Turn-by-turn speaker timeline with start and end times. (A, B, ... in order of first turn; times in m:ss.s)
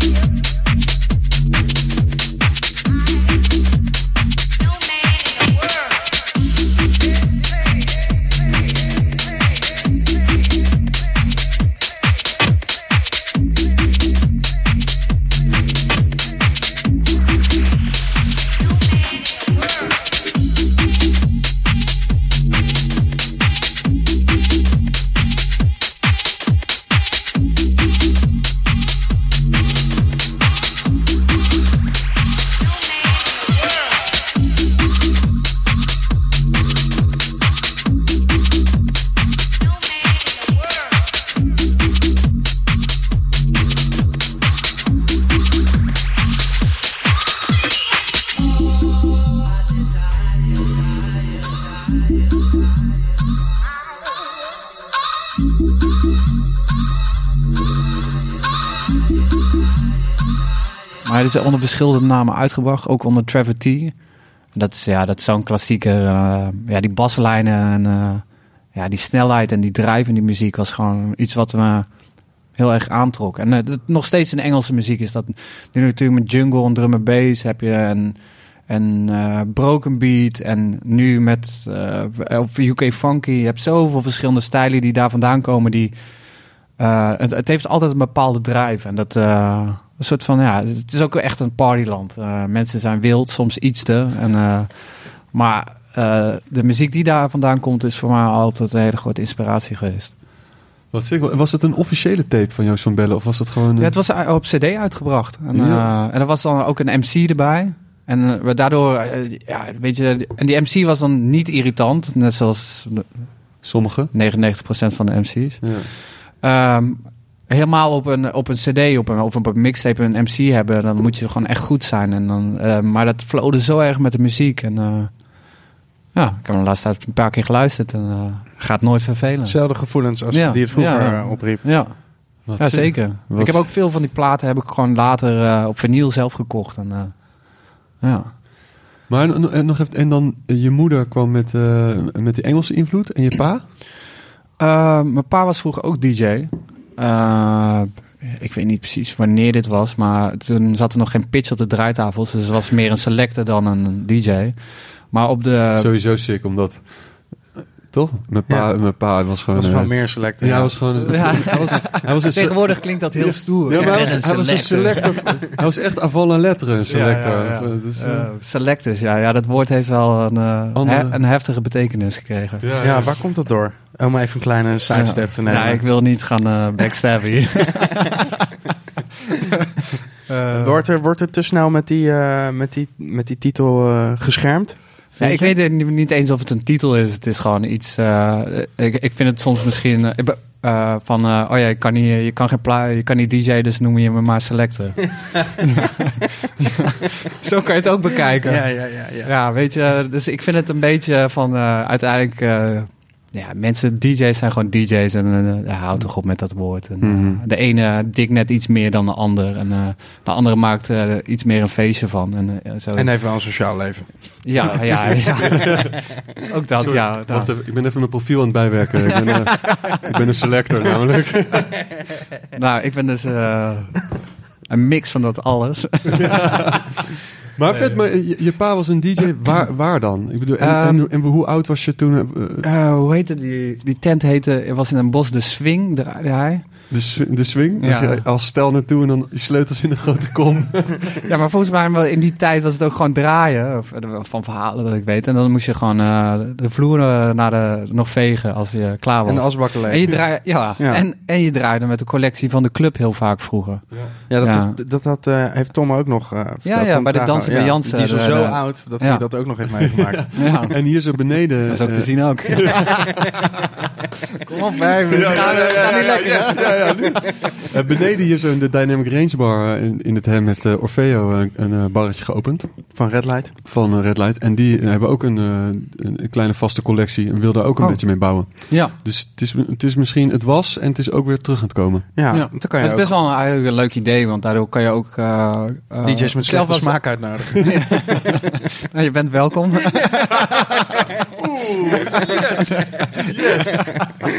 1:01.0-1:11.9 A
1:12.5-1:26.0 A
1:26.7-1:40.2 A
1:40.9-1:44.0 B
1:43.8-2:18.3 A
1:45.5-1:45.9 B
1:53.6-1:54.1 B
1:55.6-1:55.9 B
2:09.4-2:11.7 C
2:12.4-2:13.7 B
2:19.1-2:23.7 B
2:24.6-2:35.9 A
2:35.8-2:48.3 B
2:38.5-2:41.4 C
2:41.0-2:45.4 A
2:43.7-2:44.3 C
2:46.9-2:52.7 A
2:50.8-2:51.2 B
2:52.6-2:53.2 B
2:52.8-2:55.9 C
2:54.9-2:58.1 A
3:00.3-3:00.8 A
3:00.5-3:05.6 C
3:05.2-3:33.2 A
3:18.4-3:19.3 C
3:27.0-3:27.4 B
3:33.0-3:35.8 C
3:34.4-3:37.6 A
3:34.6-3:35.9 B
3:36.8-3:42.0 B
3:39.2-3:40.0 A
3:42.6-3:46.7 A
3:46.2-3:46.9 B
3:47.5-3:52.7 B
3:47.7-3:48.0 A
3:50.6-3:51.1 A
3:52.6-3:57.0 A
3:56.9-4:01.1 B
3:57.8-3:58.3 A
4:01.2-4:14.8 A
4:09.2-4:11.0 C
4:14.3-4:20.6 C
4:16.6-4:19.3 A
4:19.9-4:23.2 B
4:20.4-4:23.2 A
4:24.4-4:27.1 A
4:25.1-4:33.1 B
4:33.0-4:33.6 C
4:33.6-4:42.1 B
4:37.8-4:38.9 A
4:42.2-4:43.1 C
4:42.3-4:50.8 A
4:46.0-4:48.2 C
4:51.4-4:52.5 B
4:52.2-4:53.1 A
4:53.2-4:54.2 B
4:53.6-4:53.9 A